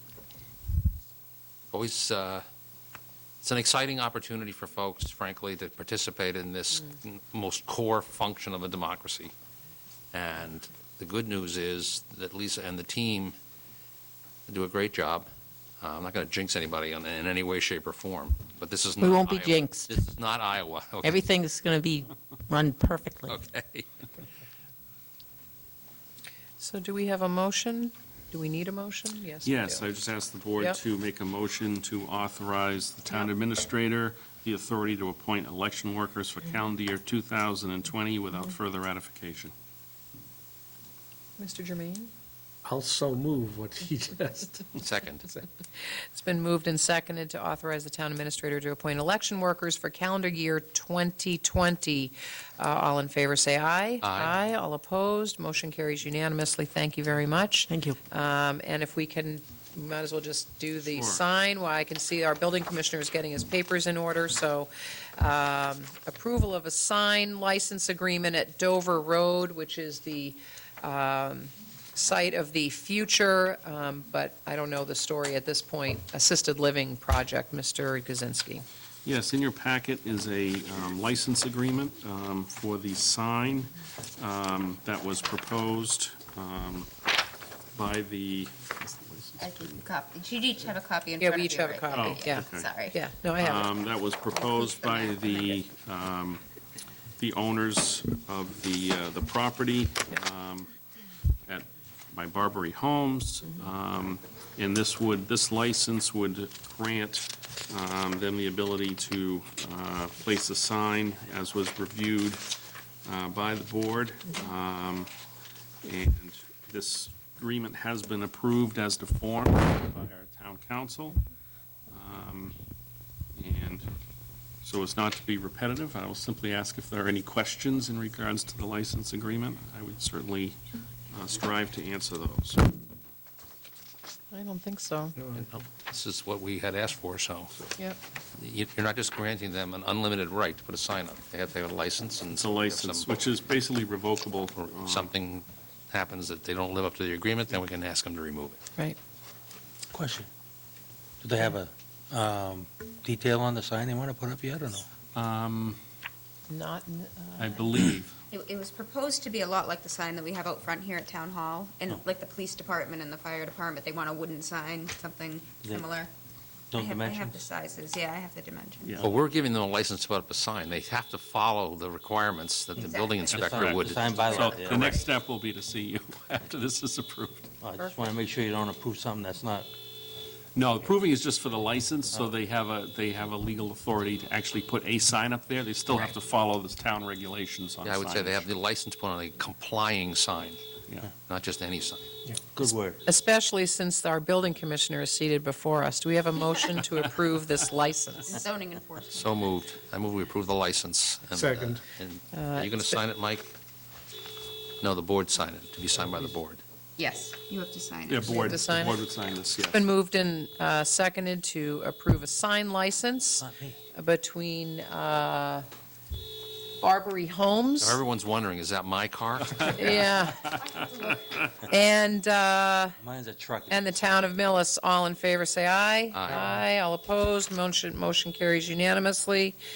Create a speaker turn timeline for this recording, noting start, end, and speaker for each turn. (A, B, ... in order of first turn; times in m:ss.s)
0:01.7-0:02.4 A
0:03.4-0:09.3 A
0:10.1-0:13.4 A
0:14.5-0:15.3 A
0:15.8-0:21.2 A
0:19.0-0:19.9 B
0:21.0-0:23.4 B
0:23.3-0:24.1 A
0:26.6-0:29.8 C
0:29.4-0:39.5 D
0:41.4-0:42.1 C
0:42.6-0:44.6 E
0:44.8-0:45.3 A
0:46.1-1:18.6 C
0:54.0-0:54.4 A
0:57.7-0:58.0 B
1:00.8-1:01.2 D
1:19.0-1:26.9 D
1:27.7-1:29.7 D
1:29.4-1:33.0 F
1:31.2-1:33.7 C
1:31.9-1:32.7 D
1:33.4-1:36.4 D
1:34.6-1:35.6 F
1:37.2-1:40.7 D
1:41.5-1:52.4 D
1:53.0-1:55.1 D
1:55.8-2:01.2 D
2:01.9-2:02.6 D
2:03.4-2:03.9 D
2:04.6-2:10.6 D
2:11.1-2:12.8 D
2:14.3-2:15.2 C
2:15.3-2:17.5 A
2:18.4-2:23.1 A
2:22.3-2:25.1 D
2:24.7-2:28.6 A
2:29.9-2:30.3 G
2:31.2-2:34.8 G
2:35.1-2:35.8 D
2:36.5-2:37.9 C
2:37.4-2:38.2 D
2:38.3-2:46.1 F
2:45.6-2:45.9 G
2:46.7-2:47.4 G
2:46.7-2:48.9 F
2:49.0-2:54.6 A
2:52.8-2:55.1 F
2:53.3-2:57.5 D
2:53.4-2:54.9 G
2:57.6-2:59.7 G
3:00.5-3:08.5 D
3:07.8-3:10.6 A
3:11.3-3:12.0 A
3:12.5-3:13.0 G
3:13.0-3:18.4 C
3:18.3-3:19.4 F
3:19.1-3:23.5 A
3:21.3-3:21.8 E
3:22.3-3:23.0 C
3:24.8-3:26.6 A
3:27.0-3:28.5 F
3:28.0-3:29.8 D
3:28.3-3:29.0 C
3:29.7-3:35.6 C
3:33.4-3:33.8 G
3:36.8-3:38.0 C
3:37.8-3:39.8 A
3:39.6-3:39.9 D
3:39.6-3:40.6 C
3:41.7-3:43.0 C
3:43.0-3:44.0 G
3:43.7-3:49.6 C
3:46.1-3:46.5 A